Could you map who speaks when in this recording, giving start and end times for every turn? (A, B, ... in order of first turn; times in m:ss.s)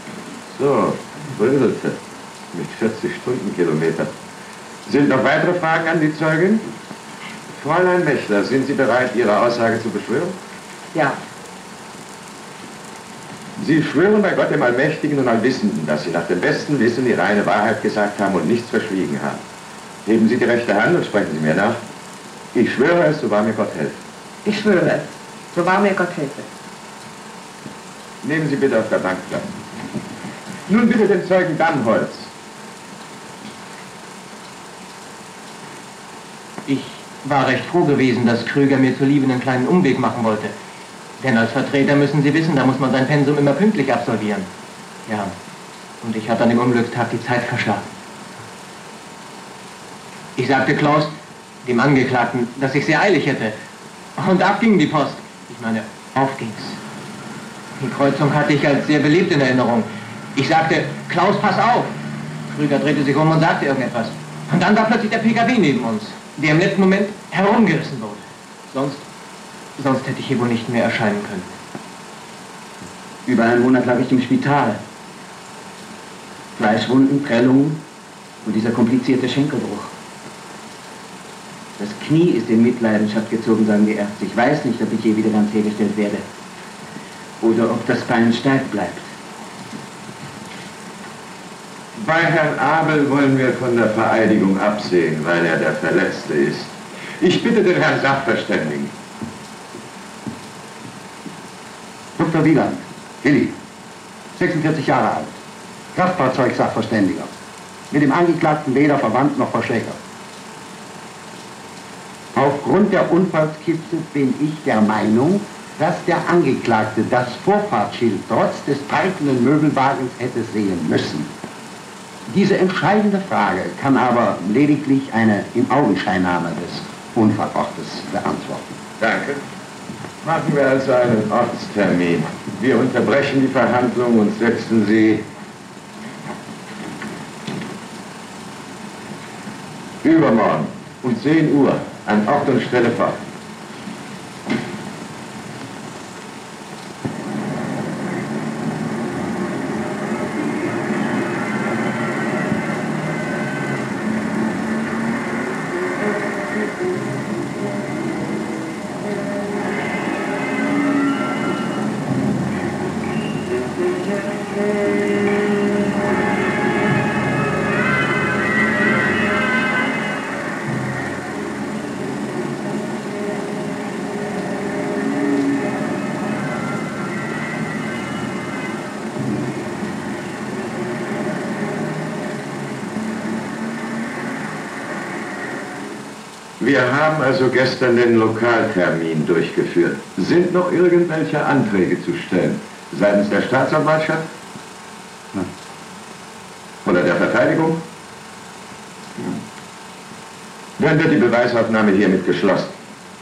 0:00.5-0:02.0 A
0:02.5-0:04.1 A
0:04.9-0:06.7 A
0:07.5-0:10.4 A
0:13.6-0:19.4 A
0:20.0-0:21.8 A
0:22.5-0:24.0 A
0:24.4-0:26.5 B
0:28.2-0:29.6 A
0:30.7-0:32.3 A
0:36.7-0:40.5 C
0:41.2-0:44.5 C
0:45.1-0:45.3 C
0:46.0-0:47.8 C
0:50.4-0:51.1 C
0:51.6-0:53.5 C
0:54.2-0:56.8 C
0:57.8-1:01.9 C
1:02.5-1:09.0 C
1:09.8-1:11.5 C
1:13.3-1:14.8 D
1:16.6-1:17.8 D
1:18.4-1:19.9 D
1:21.8-1:26.2 D
1:27.4-1:29.1 D
1:32.0-1:38.9 A
1:42.2-1:43.6 E
1:44.4-1:45.4 E
1:45.9-1:47.3 E
1:47.9-1:50.0 E
1:52.4-2:01.3 E
2:02.3-2:08.7 E
2:09.0-2:09.4 A
2:10.2-2:15.2 A
2:20.0-2:23.2 A
3:06.6-3:14.3 A
3:16.8-3:17.8 A
3:20.8-3:22.7 A